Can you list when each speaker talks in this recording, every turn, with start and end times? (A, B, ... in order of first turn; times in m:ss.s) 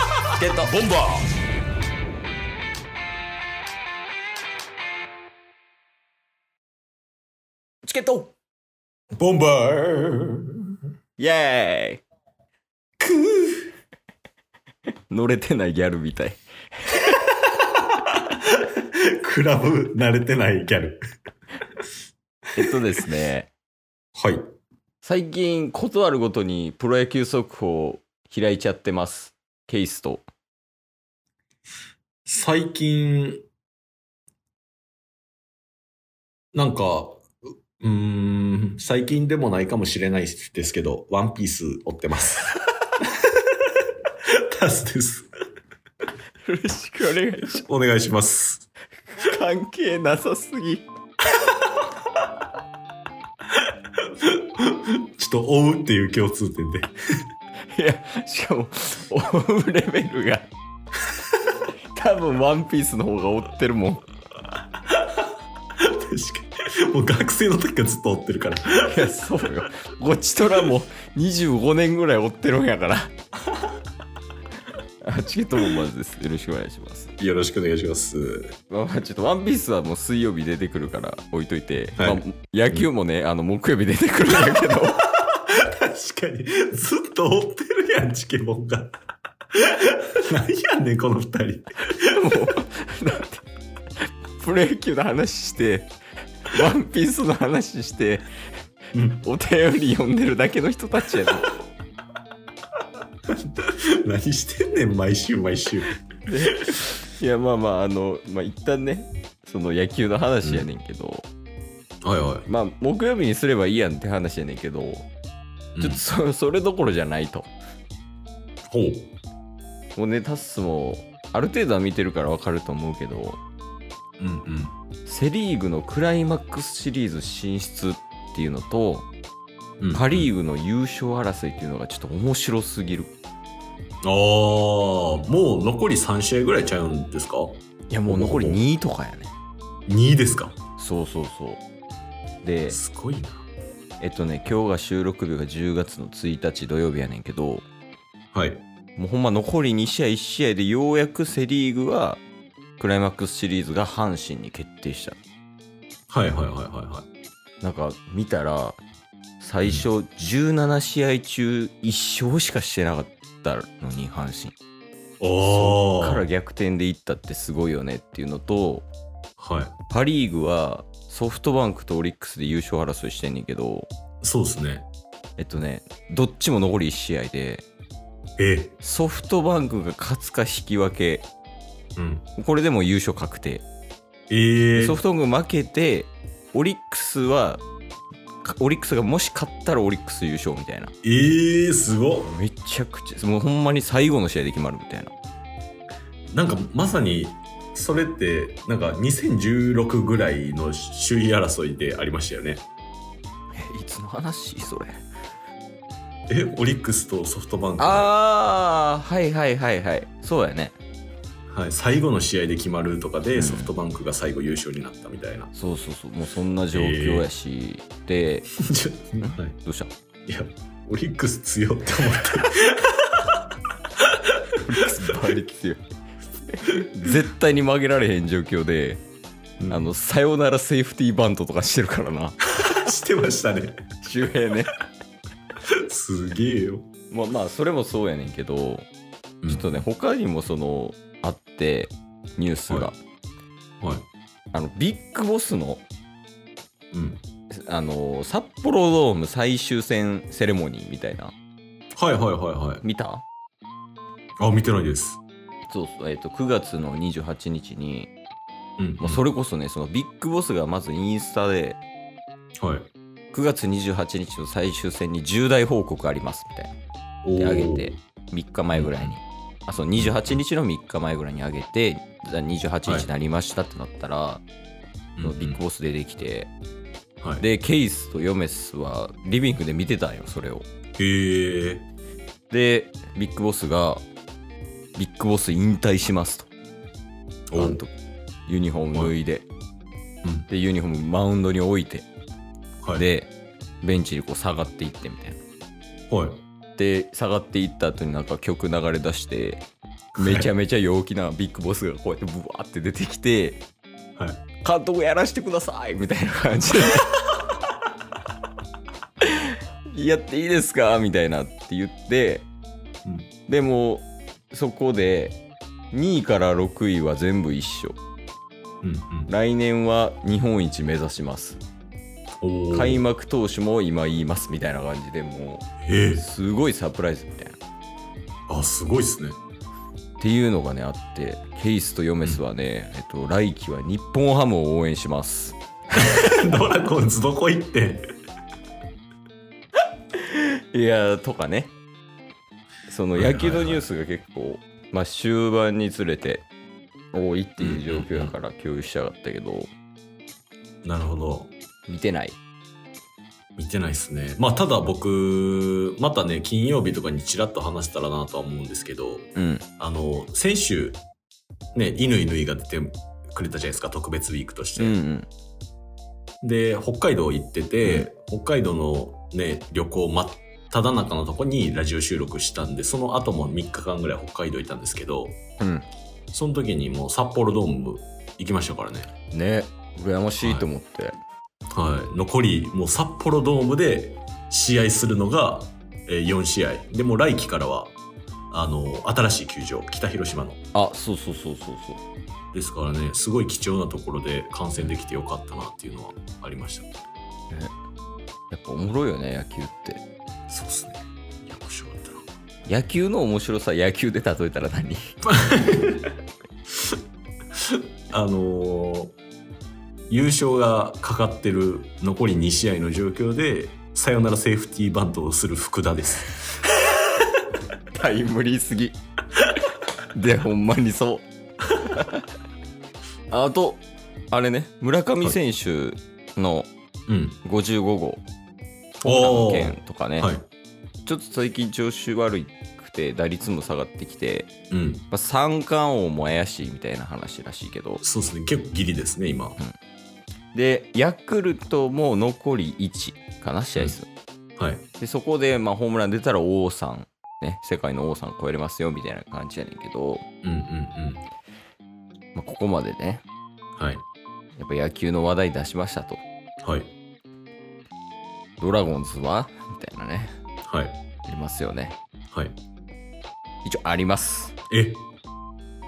0:00.4-0:00.8 A
0:00.6-0:01.2 B
0:07.8-0:08.3 A
0:09.2-0:10.7 B
0:11.2-0:12.0 A
0:13.0-0:13.6 B
0:15.1-0:17.0 A
0:19.1-0:21.0 B
0:22.6-0:23.5 A
0:24.2-0:24.4 B
0:25.0-0:30.3 A
0:32.3-0:33.4 B
0:36.5-0:37.3 B
0:37.8-0:43.1 B
0:44.5-0:45.3 B
0:46.5-0:47.6 A
0:47.4-0:48.7 B
0:49.2-0:50.8 A
0:54.2-0:56.9 B
0:57.8-1:00.5 A
1:01.9-1:04.0 A
1:05.8-1:09.1 B
1:08.8-1:13.1 A
1:15.0-1:17.1 A
1:17.2-1:18.5 B
1:18.7-1:25.0 A
1:22.0-1:22.9 B
1:25.0-1:28.9 B
1:29.9-1:32.2 B
1:32.1-1:33.4 A
1:34.4-1:35.9 A
1:36.4-1:38.2 A
1:38.9-1:39.2 B
1:39.2-1:41.5 A
1:43.3-1:46.0 B
1:46.3-1:51.2 A
1:52.0-1:52.5 B
1:52.5-1:55.1 A
1:55.8-1:56.0 B
1:55.8-1:57.5 A
1:58.7-1:59.1 B
2:00.0-2:03.4 A
2:04.2-2:04.7 B
2:05.1-2:09.1 A
2:09.8-2:10.3 B
2:09.9-2:13.1 A
2:14.0-2:18.6 B
2:17.9-2:19.3 A
2:19.9-2:20.6 B
2:20.8-2:21.6 A
2:22.4-2:22.8 A
2:22.7-2:23.4 B
2:24.0-2:27.6 A
2:28.3-2:28.6 B
2:29.0-2:32.2 A
2:32.8-2:35.2 A
2:36.1-2:37.1 B
2:37.6-2:38.8 A
2:39.4-2:44.6 A
2:45.2-2:46.2 B
2:45.4-2:48.9 A
2:49.4-2:49.8 B
2:49.9-2:53.9 A
2:54.2-2:54.9 B
2:55.4-2:57.6 A
2:58.4-2:58.8 B
2:58.8-3:01.3 A
3:02.0-3:02.2 B
3:02.4-3:03.6 A
3:04.3-3:05.0 B
3:04.8-3:07.6 A
3:08.4-3:10.9 A
3:11.0-3:12.3 B
3:12.2-3:15.1 A
3:16.3-3:22.6 B
3:23.5-3:25.0 A
3:26.3-3:28.1 B
3:27.8-3:30.8 A
3:31.5-3:35.5 B
3:33.4-3:33.7 A
3:35.5-3:38.5 A
3:36.7-3:37.3 B
3:38.6-3:39.6 B
3:39.2-3:39.9 A
3:40.3-3:43.3 B
3:44.6-3:45.8 A
3:46.5-3:49.0 A
3:49.6-3:49.9 B
3:49.7-3:52.8 A
3:52.6-3:53.8 B
3:54.0-3:54.7 A
3:55.8-3:56.9 B
3:57.1-3:58.9 A
3:59.4-3:59.7 B
3:59.5-4:03.0 A
4:04.5-4:05.8 A
4:06.9-4:07.2 B
4:07.6-4:11.3 A
4:12.0-4:12.8 B
4:12.8-4:13.2 A
4:14.4-4:15.2 B
4:15.7-4:18.1 A
4:18.8-4:19.2 B
4:19.0-4:21.8 A
4:22.6-4:22.9 B
4:23.3-4:26.7 A
4:27.2-4:28.0 B
4:27.4-4:34.4 A
4:28.7-4:29.1 B
4:30.0-4:30.4 B
4:35.2-4:35.6 B
4:35.2-4:36.5 A
4:37.4-4:40.7 A
4:41.0-4:41.8 B
4:42.5-4:44.0 A
4:45.0-4:46.5 A
4:47.5-4:47.8 B
4:47.6-4:47.9 A
4:48.5-4:49.5 A
4:50.5-4:52.1 A
4:53.0-4:53.3 A
4:53.8-4:55.4 A
4:56.1-4:56.4 B
4:56.8-4:59.6 A
5:00.2-5:00.5 B
5:00.2-5:03.6 A
5:04.2-5:04.4 B
5:04.6-5:07.3 A
5:09.2-5:12.5 A
5:13.5-5:15.4 A
5:15.9-5:18.0 A
5:18.8-5:19.3 B
5:19.3-5:21.6 A
5:22.4-5:23.0 B
5:22.7-5:27.6 A
5:25.8-5:26.2 B
5:28.5-5:29.4 B
5:30.2-5:36.2 A
5:36.0-5:38.1 B
5:40.2-5:41.7 A
5:42.9-5:46.4 A
5:43.2-5:43.8 B
5:47.1-5:49.7 A
5:47.6-5:48.3 B
5:50.8-5:51.5 B
5:51.9-5:52.4 A
5:53.6-6:01.0 B
5:59.4-5:59.6 A
6:01.7-6:05.0 B
6:04.8-6:05.3 A
6:06.4-6:15.4 B
6:15.6-6:15.9 A
6:16.3-6:19.1 B
6:19.3-6:21.2 A
6:20.4-6:20.7 B
6:21.7-6:27.9 B
6:28.5-6:30.6 B
6:30.7-6:32.0 A
6:32.5-6:36.9 B
6:38.5-6:40.0 A
6:40.5-6:42.2 B
6:42.7-6:45.1 A
6:45.2-6:46.1 B
6:48.1-6:49.1 B
6:50.1-6:56.3 B
6:57.9-6:59.0 A
7:00.1-7:01.2 A
7:01.9-7:02.2 A
7:03.3-7:06.7 A
7:07.1-7:07.4 B
7:07.4-7:08.2 A
7:09.0-7:10.4 B
7:09.0-7:10.3 A
7:11.1-7:14.5 A
7:14.7-7:15.0 B
7:15.1-7:18.0 A
7:18.0-7:19.6 B
7:20.5-7:24.1 A
7:23.7-7:24.0 B
7:24.6-7:24.8 B
7:25.0-7:30.2 A
7:30.4-7:31.2 B
7:32.4-7:33.2 A
7:33.8-7:34.0 B
7:34.6-7:36.2 A
7:36.6-7:36.9 B
7:38.6-7:40.3 A
7:40.7-7:40.9 B
7:41.3-7:42.0 A
7:43.6-7:44.6 A
7:44.7-7:45.0 B